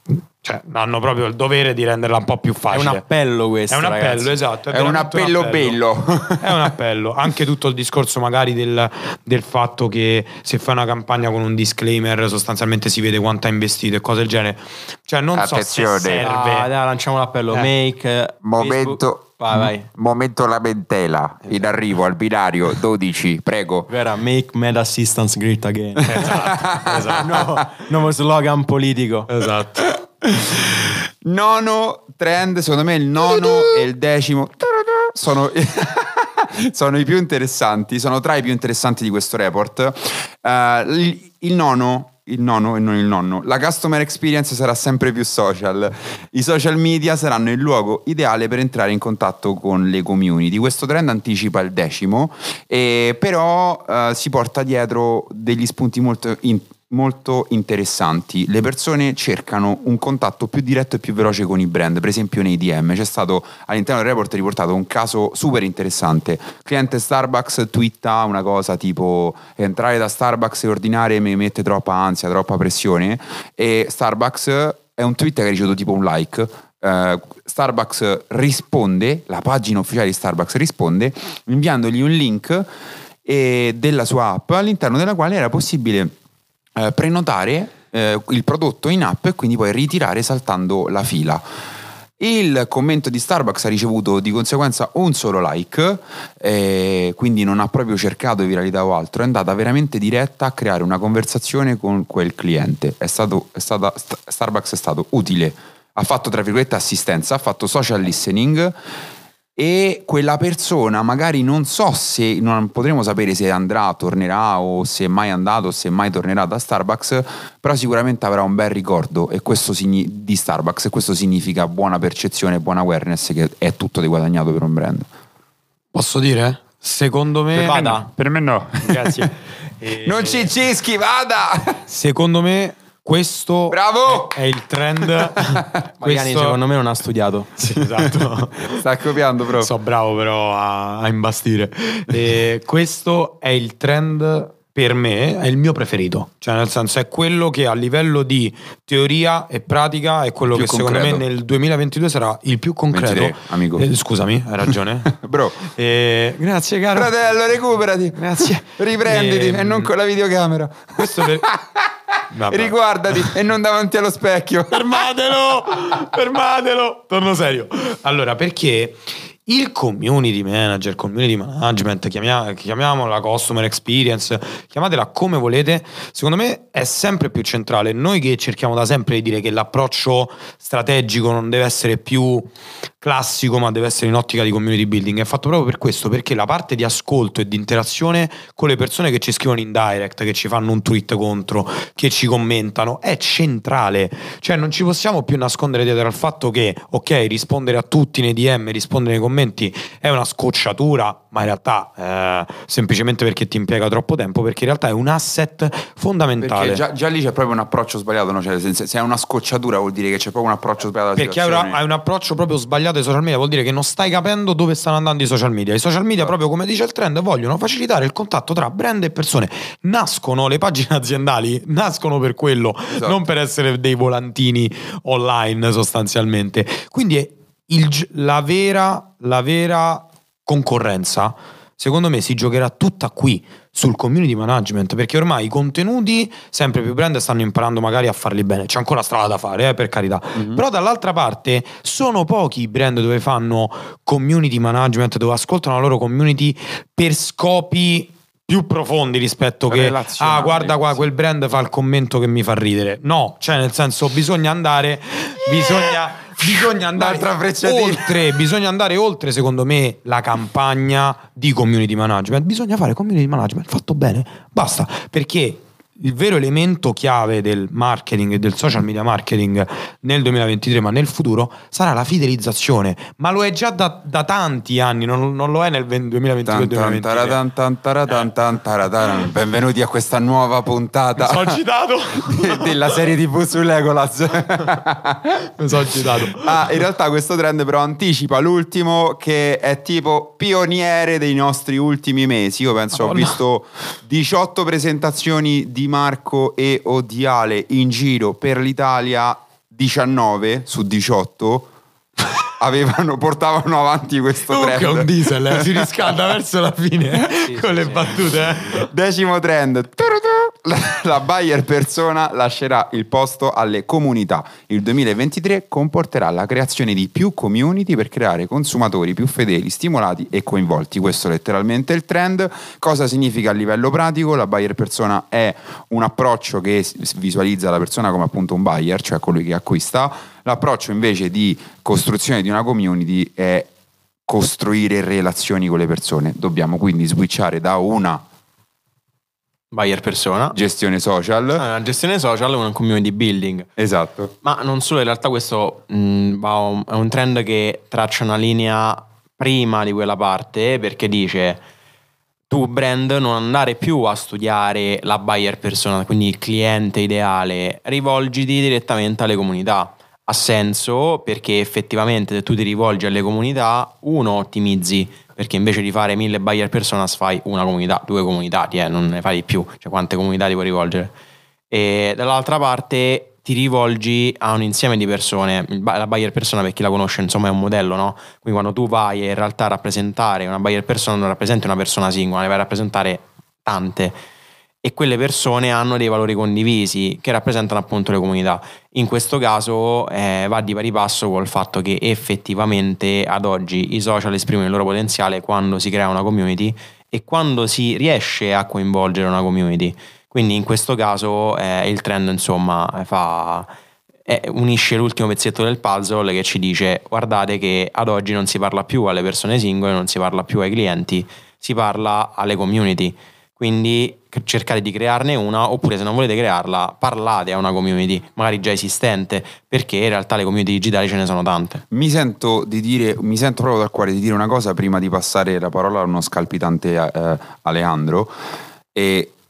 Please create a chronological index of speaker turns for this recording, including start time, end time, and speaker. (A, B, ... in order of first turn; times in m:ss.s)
0:00.4-0:03.0 A
0:02.7-0:04.4 B
0:03.7-0:05.8 A
0:04.7-0:06.7 C
0:06.4-0:16.7 A
0:15.4-0:16.2 C
0:16.2-0:19.9 B
0:18.4-0:23.9 C
0:23.9-0:26.4 B
0:26.1-0:27.4 A
0:26.2-0:27.6 C
0:27.2-0:29.3 B
0:29.3-0:29.9 A
0:30.2-1:22.7 C
1:23.2-1:26.1 C
1:26.8-1:31.4 C
1:32.2-1:48.8 C
1:49.6-2:05.1 C
2:05.9-2:08.0 A
2:07.5-2:08.1 B
2:08.2-2:09.3 C
2:08.8-2:10.6 A
2:10.0-2:11.8 C
2:11.9-2:16.6 A
2:13.7-2:14.4 C
2:15.0-2:15.5 C
2:16.0-2:17.5 B
2:17.6-2:18.8 A
2:18.0-2:19.7 C
2:19.6-2:37.2 A
2:30.5-2:31.2 C
2:32.9-2:33.9 C
2:35.0-2:35.6 C
2:36.9-2:41.9 C
2:38.2-2:39.9 A
2:41.0-2:41.5 A
2:42.3-2:42.7 A
2:42.5-2:45.1 C
2:44.7-3:02.5 A
3:03.0-3:26.8 A
3:26.4-3:31.8 C
3:31.2-4:37.4 A
4:00.4-4:00.6 C
4:09.7-4:11.1 C
4:16.9-4:18.2 C
4:36.4-4:41.6 C
4:41.2-4:43.0 A
4:42.2-4:45.5 C
4:45.6-4:46.6 A
4:46.2-5:01.7 C
4:52.9-4:53.4 A
5:02.6-5:05.9 C
5:04.5-5:08.9 A
5:07.5-5:08.2 B
5:08.7-5:33.7 C
5:34.3-5:38.2 C
5:39.7-5:40.6 B
5:40.5-5:41.6 C
5:41.6-5:43.7 B
5:43.8-5:44.3 C
5:44.4-5:51.6 B
5:52.5-6:11.1 B
6:11.7-6:24.2 B
6:24.8-6:43.7 B
6:44.3-7:01.8 B
7:01.9-7:08.3 C
7:08.9-7:09.3 C